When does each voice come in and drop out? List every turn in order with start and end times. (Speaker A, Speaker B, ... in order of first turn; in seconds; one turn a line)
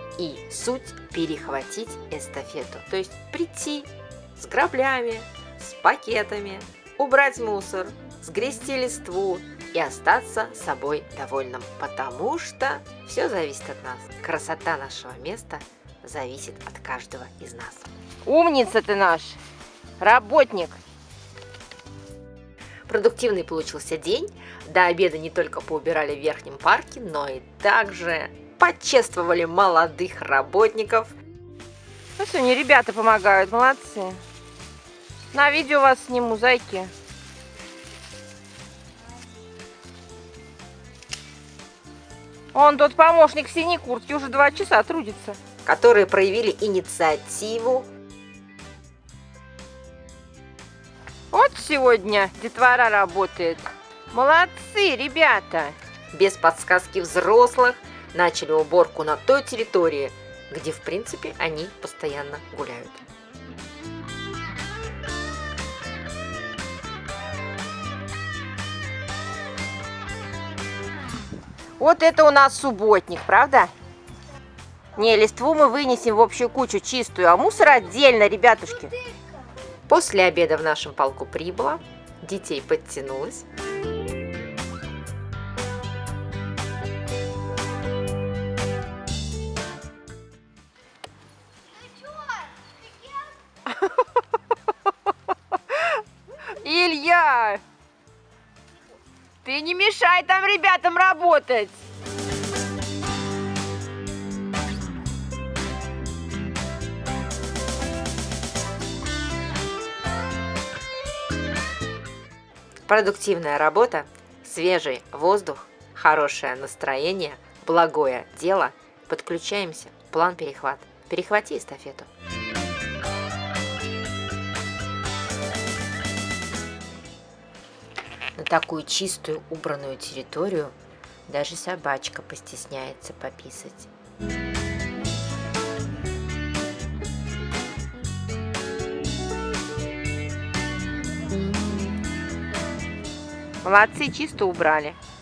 Speaker A: 0.2-17.9
Speaker B: 18.2-19.4
Speaker B: 20.0-20.8
Speaker A: 22.9-31.1
Speaker B: 32.2-34.2
Speaker B: 35.3-36.9
Speaker B: 42.5-45.4
Speaker A: 45.6-47.9
Speaker B: 51.3-55.8
Speaker A: 56.1-63.0
Speaker B: 71.8-73.7
Speaker B: 75.0-79.0
Speaker A: 79.9-83.5
Speaker B: 96.6-97.6
Speaker B: 99.4-101.8
Speaker A: 112.9-122.1
Speaker A: 128.4-130.8
Speaker A: 131.3-133.9
Speaker B: 143.6-145.0